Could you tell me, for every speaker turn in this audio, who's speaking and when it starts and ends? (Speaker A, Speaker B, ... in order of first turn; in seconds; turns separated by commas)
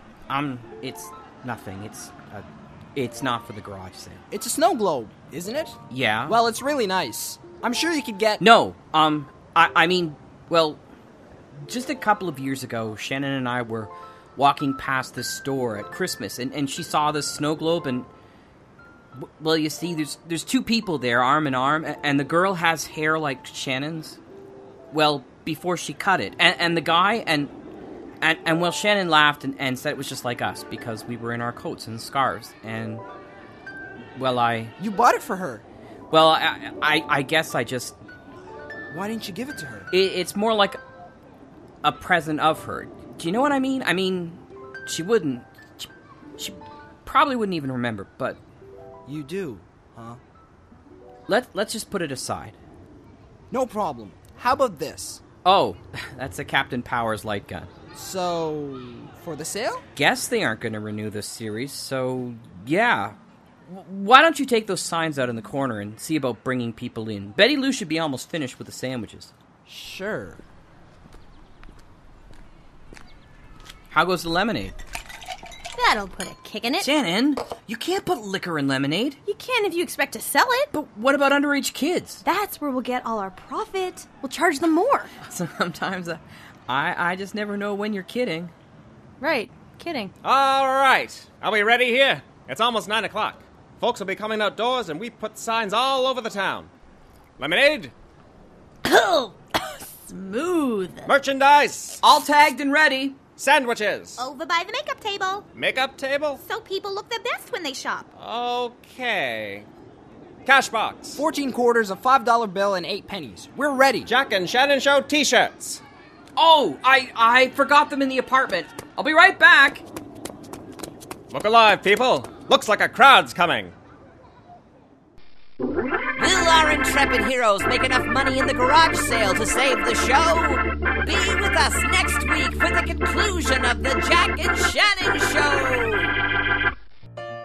Speaker A: 0.3-4.2, Speaker B: 4.3-8.4, Speaker A: 5.9-6.4, Speaker A: 8.4-10.8, Speaker A: 11.7-18.1, Speaker A: 19.2-24.2, Speaker A: 24.9-27.5, Speaker A: 28.2-33.0, Speaker A: 34.2-34.7, Speaker B: 34.8-35.6, Speaker A: 36.1-38.0, Speaker B: 38.9-39.9, Speaker A: 39.9-40.8, Speaker A: 41.8-48.4, Speaker B: 49.1-50.2, Speaker A: 51.3-52.6, Speaker B: 53.5-55.2, Speaker A: 55.5-57.7, Speaker B: 58.0-59.9, Speaker A: 60.0-63.2, Speaker A: 63.7-69.3, Speaker B: 69.7-70.4, Speaker A: 73.9-74.8, Speaker C: 75.8-76.9, Speaker A: 76.8-79.2, Speaker C: 79.3-80.7, Speaker A: 80.7-82.2, Speaker C: 82.2-85.1, Speaker A: 85.2-88.5, Speaker C: 89.2-90.1, Speaker D: 90.2-96.7, Speaker D: 97.4-97.9, Speaker C: 98.8-101.1, Speaker D: 101.1-102.0, Speaker A: 102.0-103.2, Speaker D: 103.4-104.2, Speaker E: 104.2-105.5, Speaker D: 105.5-106.4, Speaker E: 106.4-108.1, Speaker D: 108.2-109.7, Speaker D: 110.5-111.2, Speaker B: 111.2-114.1, Speaker D: 114.1-115.8, Speaker A: 116.4-119.8, Speaker D: 121.3-123.7, Speaker F: 126.2-136.2